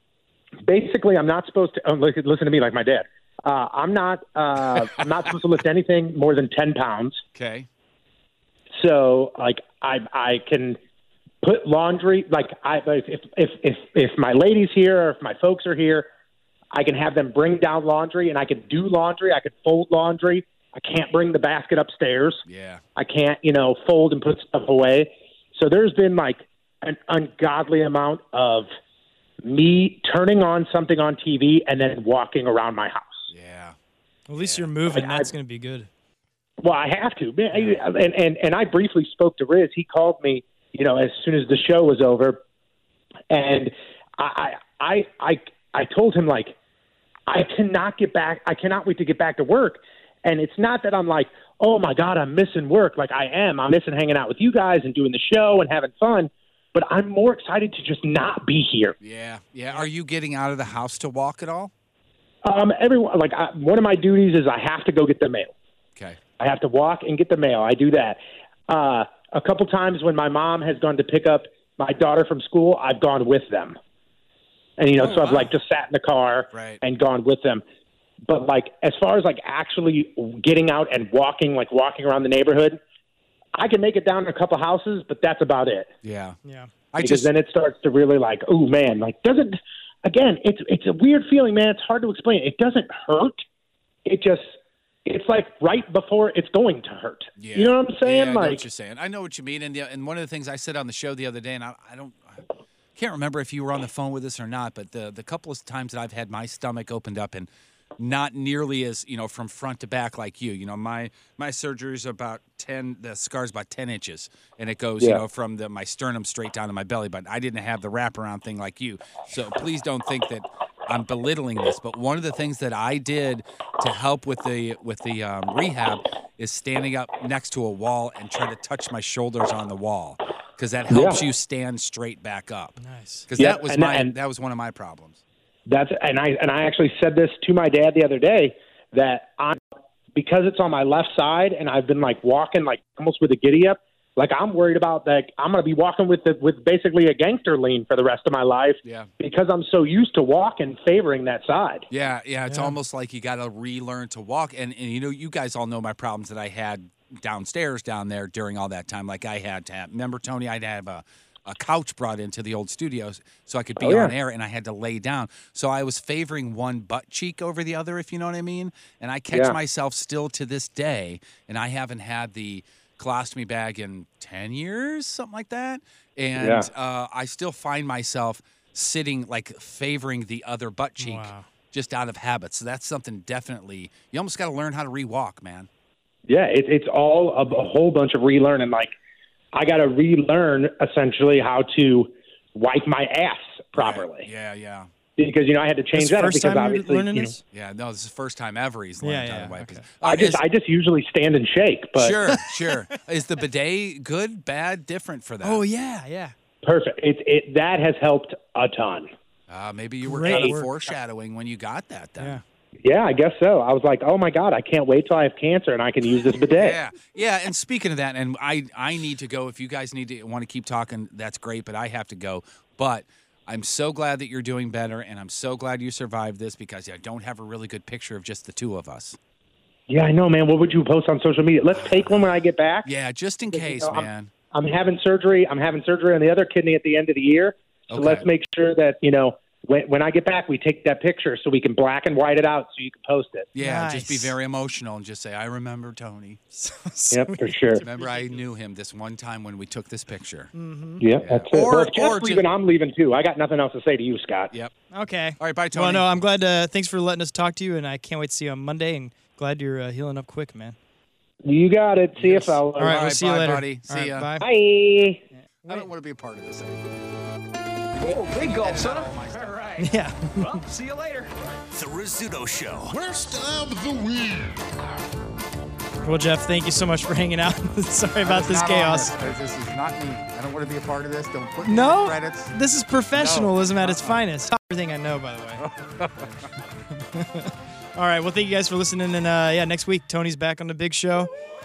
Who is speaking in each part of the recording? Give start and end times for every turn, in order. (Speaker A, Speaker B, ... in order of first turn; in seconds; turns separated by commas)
Speaker A: 0.7-7.2, Speaker B: 7.3-7.7, Speaker A: 8.8-10.8, Speaker A: 11.4-16.1, Speaker A: 16.7-22.4, Speaker B: 22.4-22.8, Speaker A: 22.9-28.7, Speaker A: 29.4-33.2, Speaker B: 33.3-33.8, Speaker C: 34.3-35.9, Speaker B: 34.4-34.7, Speaker A: 34.9-35.3, Speaker A: 36.6-42.4, Speaker B: 37.5-37.9, Speaker A: 43.3-46.5, Speaker A: 47.3-58.9, Speaker B: 59.0-61.7, Speaker A: 62.4-65.5, Speaker A: 66.4-73.8, Speaker A: 74.8-77.6, Speaker B: 75.0-75.5, Speaker B: 76.5-76.8, Speaker A: 78.2-82.8, Speaker A: 83.5-85.9, Speaker B: 86.0-86.3, Speaker C: 86.4-86.7, Speaker B: 86.9-87.3, Speaker A: 87.0-93.4, Speaker A: 94.1-94.4, Speaker A: 95.1-98.6, Speaker B: 97.4-102.4, Speaker B: 103.0-135.2, Speaker A: 130.9-131.2, Speaker C: 132.8-133.3, Speaker A: 133.3-134.1, Speaker A: 135.7-139.6, Speaker A: 140.2-151.8, Speaker B: 148.8-149.1, Speaker B: 151.9-185.7, Speaker C: 152.4-152.8, Speaker A: 163.8-164.1, Speaker A: 169.3-169.6, Speaker A: 176.4-176.7, Speaker C: 181.0-181.5, Speaker A: 186.3-188.9, Speaker A: 189.5-194.3, Speaker B: 193.7-194.9, Speaker A: 195.2-197.3, Speaker C: 195.9-197.4, Speaker B: 197.5-200.4, Speaker C: 199.0-199.8, Speaker A: 200.0-202.2, Speaker B: 202.0-205.6, Speaker C: 202.3-202.8, Speaker C: 205.4-206.3, Speaker A: 206.6-209.1, Speaker B: 209.5-212.4, Speaker C: 210.0-210.7, Speaker A: 210.2-210.6, Speaker A: 212.8-216.8, Speaker B: 216.5-229.2, Speaker A: 229.9-232.9, Speaker B: 231.7-234.3, Speaker A: 233.5-243.5, Speaker B: 237.9-238.2, Speaker B: 243.6-246.4, Speaker C: 243.6-244.3, Speaker C: 246.5-248.4, Speaker A: 247.1-247.8, Speaker B: 247.8-250.5, Speaker C: 250.5-251.1, Speaker A: 251.0-254.5, Speaker B: 251.2-252.4, Speaker C: 254.9-260.8, Speaker B: 255.4-256.2, Speaker A: 261.4-263.0, Speaker B: 262.2-264.3, Speaker C: 262.8-264.4, Speaker A: 264.4-265.2, Speaker C: 265.6-265.9, Speaker B: 265.6-266.9, Speaker B: 268.0-269.9, Speaker D: 268.0-269.8, Speaker C: 269.8-270.6, Speaker D: 270.4-271.3, Speaker E: 271.7-274.5, Speaker C: 276.0-279.2, Speaker B: 278.2-282.5, Speaker C: 281.6-285.6, Speaker B: 283.1-284.2, Speaker B: 285.6-286.4, Speaker C: 287.0-291.3